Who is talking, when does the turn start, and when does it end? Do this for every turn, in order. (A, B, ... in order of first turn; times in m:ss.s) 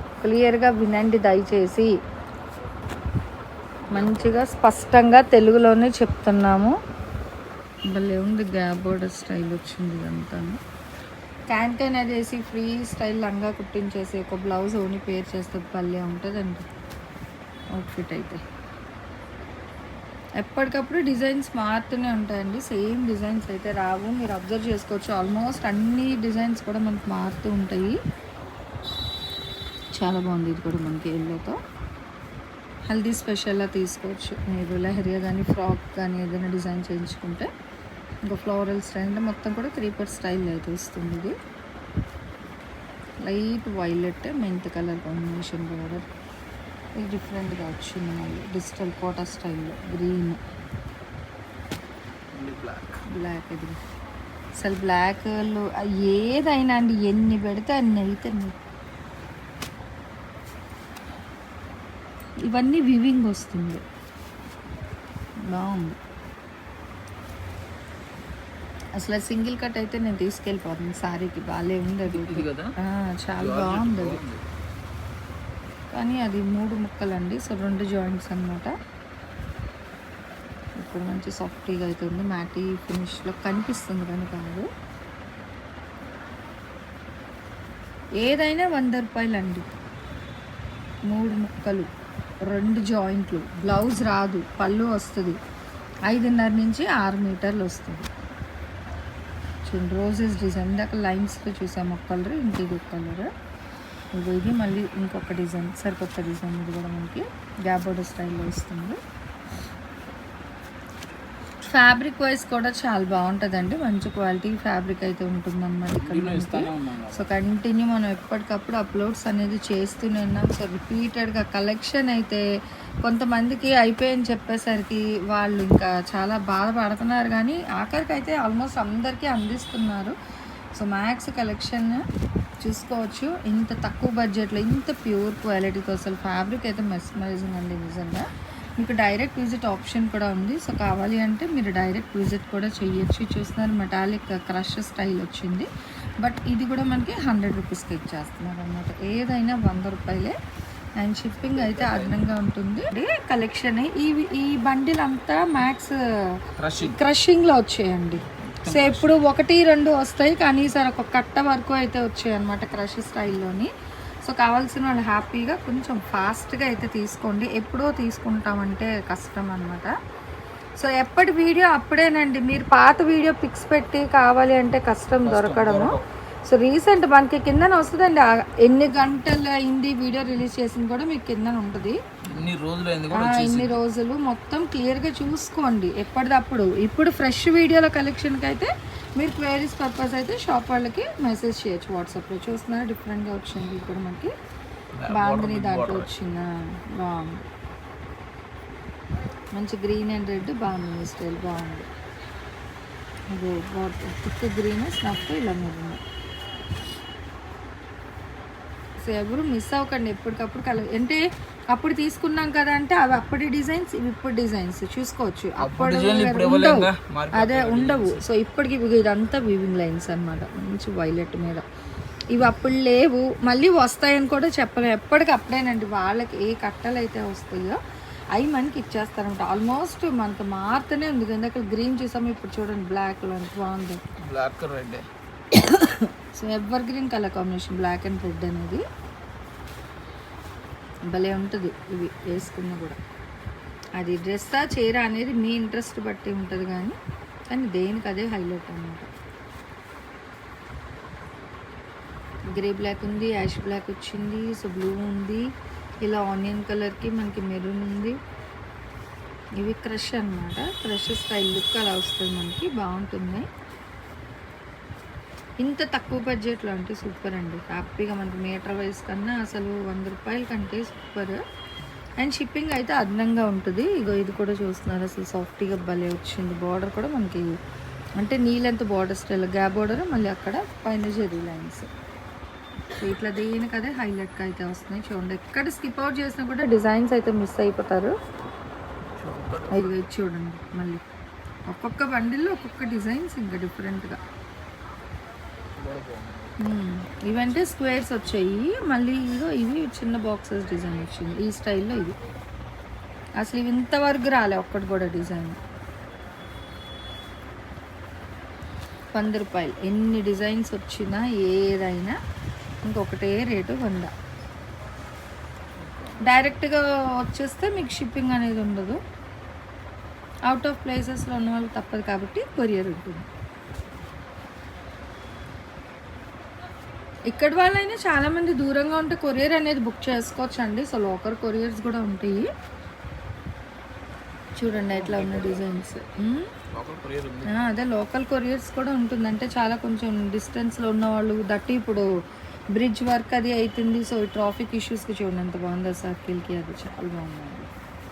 0:00.2-0:01.9 A
0:03.9-0:04.4 B
0:03.9-0:06.7 A
0:07.9-0:10.6 A
0:11.5-0:16.6 A
0:17.7-0:18.4 A
0:20.4-0:28.0 A
0:29.9-0:31.6 A
0:32.9-0:37.5 A
0:38.3-0:41.3 A
0:43.2-0:46.0 A
0:47.0-0:50.4 A
0:52.3-0:53.0 B
0:53.1-0:53.8 A
0:54.6-0:58.6 A
1:02.4-1:03.8 A
1:05.4-1:06.0 A
1:09.0-1:14.2 A
1:12.0-1:12.7 B
1:13.4-1:14.4 B
1:15.9-1:18.7 A
1:20.8-1:24.7 A
1:28.2-1:29.7 A
1:31.1-1:31.9 A
1:32.4-1:35.4 A
1:36.1-1:38.1 A
1:39.7-1:43.3 A
1:44.1-1:49.0 A
1:51.6-2:02.4 A
1:56.0-1:57.3 B
2:03.0-2:10.1 A
2:10.8-2:12.0 A
2:12.6-2:18.2 A
2:18.8-2:25.7 A
2:26.2-2:30.4 A
2:31.0-2:36.0 A
2:31.4-2:32.3 B
2:36.6-2:37.0 B
2:36.8-2:43.7 A
2:38.4-2:39.1 B
2:44.2-2:49.9 A
2:50.8-3:02.0 A
2:55.2-2:56.0 B
3:02.3-3:03.8 B
3:03.1-3:14.3 A
3:15.0-3:16.1 B
3:15.1-3:17.5 A
3:19.5-3:21.9 A
3:23.3-3:26.0 A
3:29.0-3:31.2 A
3:31.7-3:41.6 A
3:35.6-3:38.2 B
3:42.3-3:47.8 A
3:48.3-3:54.0 A
3:54.2-3:55.1 B
3:55.5-3:58.8 A
4:01.1-4:03.0 A
4:04.0-4:07.0 A
4:07.5-4:09.1 A
4:12.5-4:15.4 A
4:16.0-4:18.2 A
4:19.6-4:23.5 A
4:25.6-4:31.4 A
4:32.2-4:37.5 A
4:38.2-4:41.9 A
4:43.0-4:48.1 A
4:49.1-4:50.0 B
4:49.7-4:51.0 A
4:51.7-4:54.2 A
4:55.8-4:56.6 B
4:56.6-5:02.2 A
5:03.4-5:05.6 A
5:09.1-5:12.2 A
5:12.8-5:14.1 A
5:15.8-5:16.4 B
5:16.2-5:19.0 A
5:20.5-5:23.2 A
5:27.3-5:32.4 A
5:34.6-5:36.5 A
5:34.9-5:35.6 B
5:36.7-5:37.7 B
5:37.4-5:42.1 A
5:42.7-5:47.7 A